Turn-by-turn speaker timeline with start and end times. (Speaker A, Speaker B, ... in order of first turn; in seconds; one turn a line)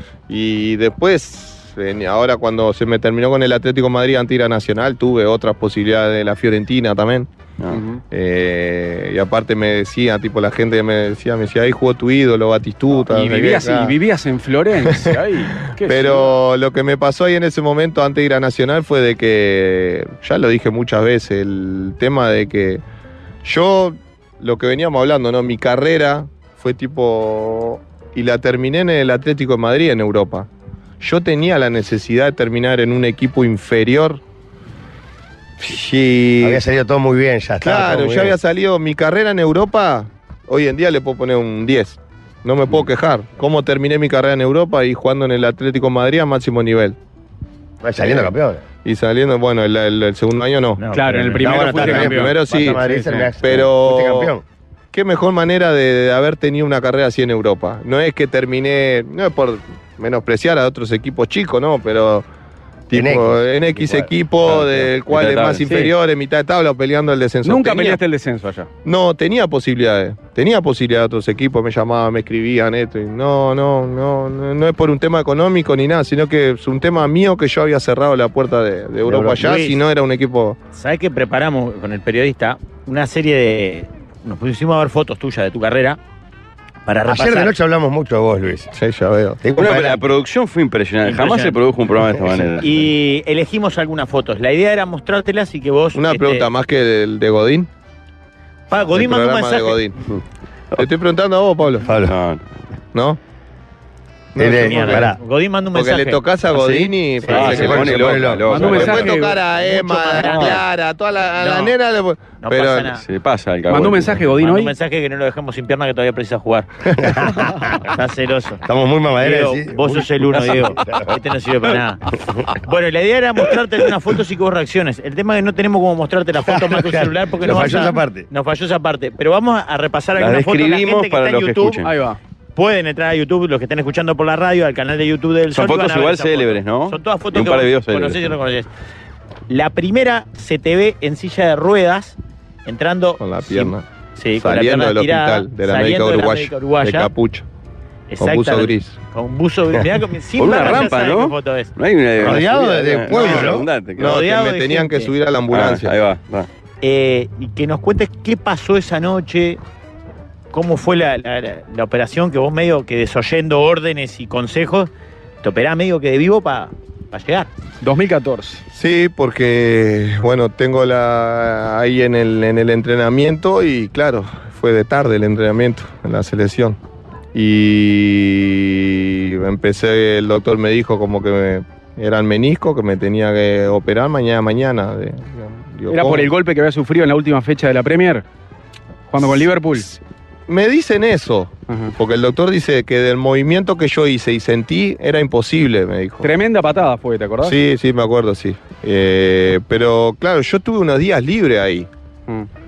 Speaker A: 0.3-7.3
Speaker B: 7.7-8.0
Speaker A: 8.1-13.9
Speaker B: 13.1-16.3
Speaker A: 14.8-15.1
Speaker A: 15.8-22.8
Speaker A: 23.4-30.5
Speaker A: 31.0-34.2
Speaker A: 35.6-36.6
Speaker C: 36.4-38.4
Speaker A: 37.6-47.0
Speaker C: 47.8-48.6
Speaker A: 48.0-48.3
Speaker A: 48.8-50.8
Speaker D: 50.8-51.7
Speaker B: 50.9-53.3
Speaker C: 51.2-54.4
Speaker A: 51.6-52.9
Speaker A: 53.4-54.3
Speaker A: 54.9-62.3
Speaker A: 62.9-68.0
Speaker C: 62.9-64.9
Speaker E: 65.1-65.6
Speaker B: 65.3-65.9
Speaker B: 67.4-68.7
Speaker A: 68.8-80.6
Speaker D: 79.1-79.8
Speaker D: 80.8-86.0
Speaker D: 86.9-87.5
Speaker C: 87.0-88.7
Speaker A: 88.8-89.4
Speaker C: 89.4-90.0
Speaker E: 89.6-92.9
Speaker D: 91.0-91.6
Speaker D: 92.6-96.5
Speaker A: 95.9-97.7
Speaker D: 98.7-99.8
Speaker A: 98.9-100.0
Speaker A: 100.8-101.9
Speaker C: 101.8-102.2
Speaker E: 101.9-102.4
Speaker A: 102.9-103.2
Speaker A: 104.3-105.1
Speaker C: 104.4-105.2
Speaker D: 104.4-106.2
Speaker A: 105.7-112.9
Speaker E: 106.5-109.1
Speaker D: 107.3-107.8
Speaker C: 107.3-108.7
Speaker B: 108.5-109.4
Speaker D: 109.6-110.7
Speaker E: 110.2-110.6
Speaker D: 111.4-111.8
Speaker D: 112.4-113.0
Speaker E: 113.0-114.2
Speaker B: 113.7-114.7
Speaker D: 114.3-118.6
Speaker C: 117.0-117.8
Speaker C: 118.7-121.2
Speaker D: 119.2-131.8
Speaker C: 126.4-128.3
Speaker E: 130.2-131.9
Speaker B: 131.8-132.2
Speaker D: 132.6-138.7
Speaker E: 135.5-138.3
Speaker D: 139.5-147.1
Speaker A: 143.2-147.5
Speaker D: 148.1-151.7
Speaker A: 148.2-149.0
Speaker E: 150.4-154.2
Speaker C: 152.2-153.7
Speaker A: 153.1-155.9
Speaker D: 154.0-155.1
Speaker E: 155.5-156.5
Speaker D: 156.8-159.6
Speaker D: 160.5-164.9
Speaker D: 165.4-167.5
Speaker B: 167.8-168.6
Speaker A: 168.7-176.8
Speaker A: 177.3-186.3
Speaker B: 185.9-188.2
Speaker B: 189.1-189.9
Speaker A: 189.2-196.3
Speaker B: 191.7-191.9
Speaker B: 196.2-197.6
Speaker A: 197.4-201.9